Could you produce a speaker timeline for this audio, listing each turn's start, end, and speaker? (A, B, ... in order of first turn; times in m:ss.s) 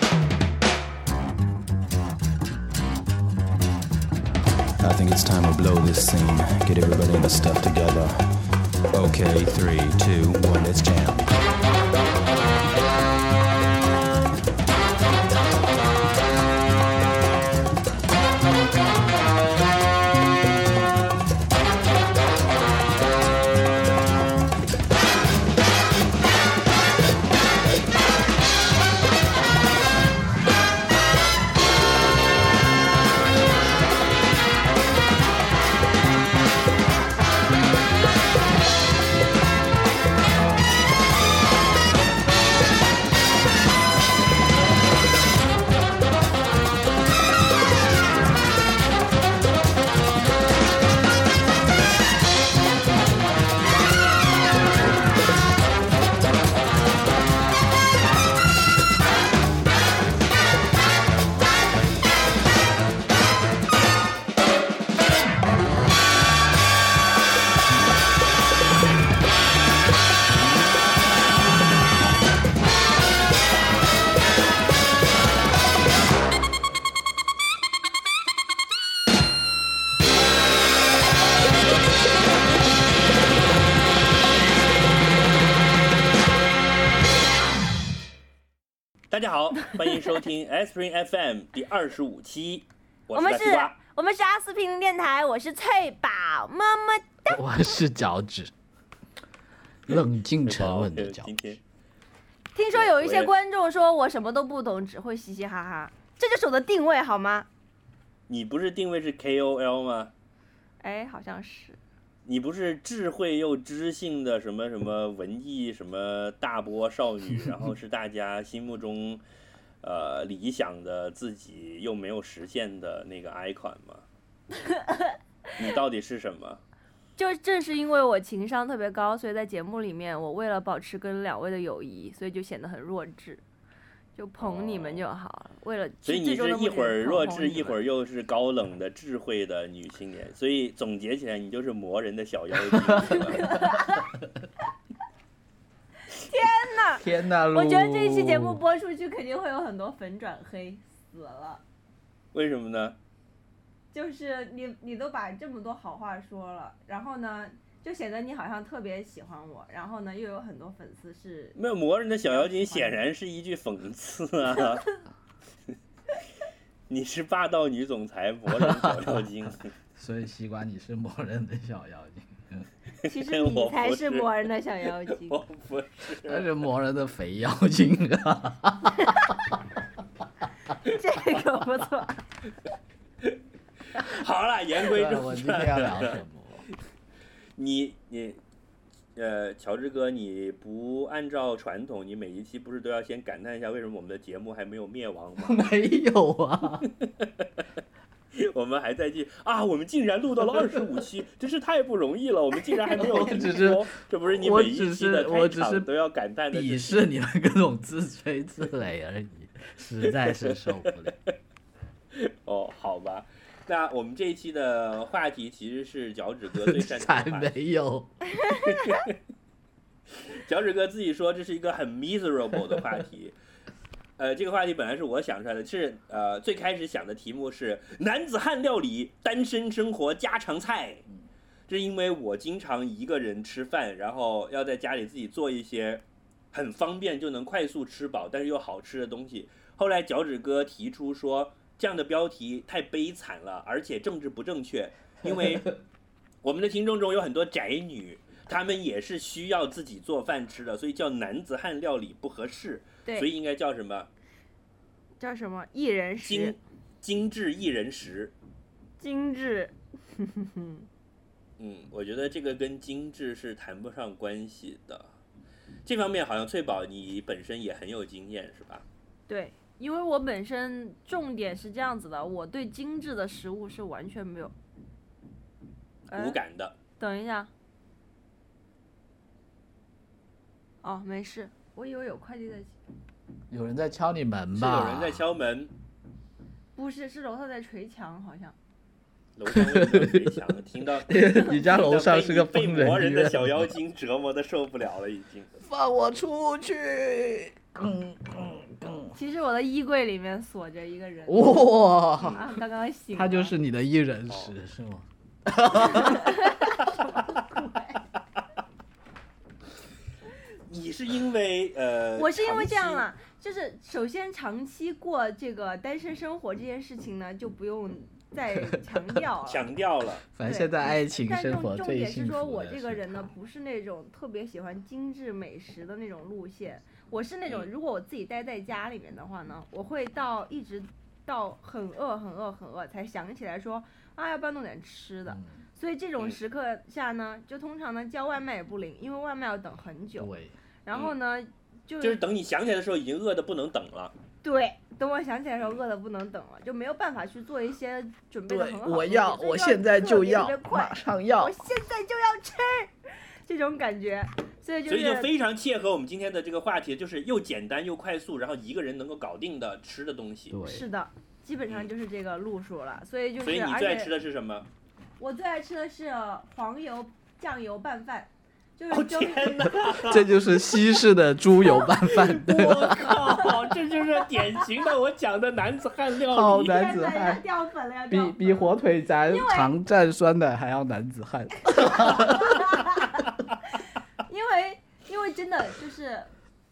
0:04.8-0:08.2 A
0:08.9-0:11.3 A
1:29.1-1:33.7 B
1:33.1-1:37.4 C
1:37.3-1:38.5 D
1:39.8-1:41.3 D
1:39.9-1:41.6 B
1:42.5-1:47.5 C
1:42.7-1:43.3 B
1:48.3-1:50.1 B
1:50.8-1:51.8 C
1:52.2-1:59.2 B
1:59.8-2:04.0 B
2:04.6-2:05.2 C
2:05.6-2:06.6 B
2:07.2-2:13.4 C
2:14.1-2:17.8 C
2:14.4-2:15.0 B
2:16.0-2:23.4 B
2:22.7-2:24.0 D
2:23.4-2:24.0 C
2:26.1-2:31.6 C
2:27.0-2:28.6 D
2:32.3-2:33.0 B
2:33.9-2:41.6 C
2:41.6-2:44.9 B
2:42.3-2:43.0 C
2:46.9-2:49.7 B
2:48.6-2:49.3 D
2:50.0-2:52.7 D
2:53.0-2:54.3 B
2:53.1-2:55.4 C
2:55.1-2:56.5 B
2:56.2-2:59.2 D
3:00.7-3:02.2 C
3:03.9-3:06.1 B
3:04.9-3:06.7 D
3:07.6-3:08.4 B
3:09.2-3:15.6 B
3:15.4-3:16.9 D
3:17.0-3:17.5 B
3:18.3-3:27.0 B
3:20.5-3:20.8 D
3:22.9-3:25.9 D
3:26.5-3:31.2 D
3:32.1-3:37.5 B
3:36.6-3:38.1 D
3:38.4-3:39.2 B
3:40.2-3:43.4 B
3:44.2-3:51.0 B
3:51.7-4:05.7 B
4:05.2-4:05.6 D
4:06.4-4:14.1 B
4:15.2-4:16.6 C
4:16.2-4:18.3 B
4:19.0-4:20.8 C
4:21.6-4:25.1 B
4:25.8-4:28.8 B
4:29.3-4:34.5 C
4:36.1-4:36.4 C
4:36.1-4:36.8 B
4:37.0-4:37.5 C
4:40.8-4:42.7 C
4:43.5-4:45.2 D
4:44.5-4:45.7 B
4:46.7-4:48.5 C
4:49.4-4:55.5 B
4:49.5-4:50.4 D
4:51.0-4:53.7 D
4:55.6-4:59.2 D
4:59.1-5:01.6 C
5:01.3-5:02.4 D
5:02.2-5:03.5 C
5:03.1-5:06.6 D
5:04.3-5:04.5 B
5:05.7-5:08.0 C
5:10.7-5:13.1 B
5:12.2-5:19.7 C
5:19.4-5:20.2 B
5:20.3-5:23.3 D
5:20.4-5:40.3 C
5:35.3-5:35.6 D
5:40.2-5:40.5 D
5:40.8-5:42.2 C
5:42.0-5:44.1 B
5:44.4-5:55.3 C
5:48.5-5:51.5 D
5:54.9-6:00.5 B
6:00.5-6:00.8 D
6:00.6-6:04.1 C
6:03.4-6:04.7 B
6:05.2-6:09.6 C
6:08.9-6:10.4 B
6:09.6-6:13.2 D
6:12.1-6:16.9 B
6:13.1-6:13.5 C
6:16.3-6:17.4 D
6:16.6-6:18.8 C
6:18.1-6:22.7 D
6:19.3-6:19.7 C
6:21.7-6:23.1 C
6:24.2-6:26.3 C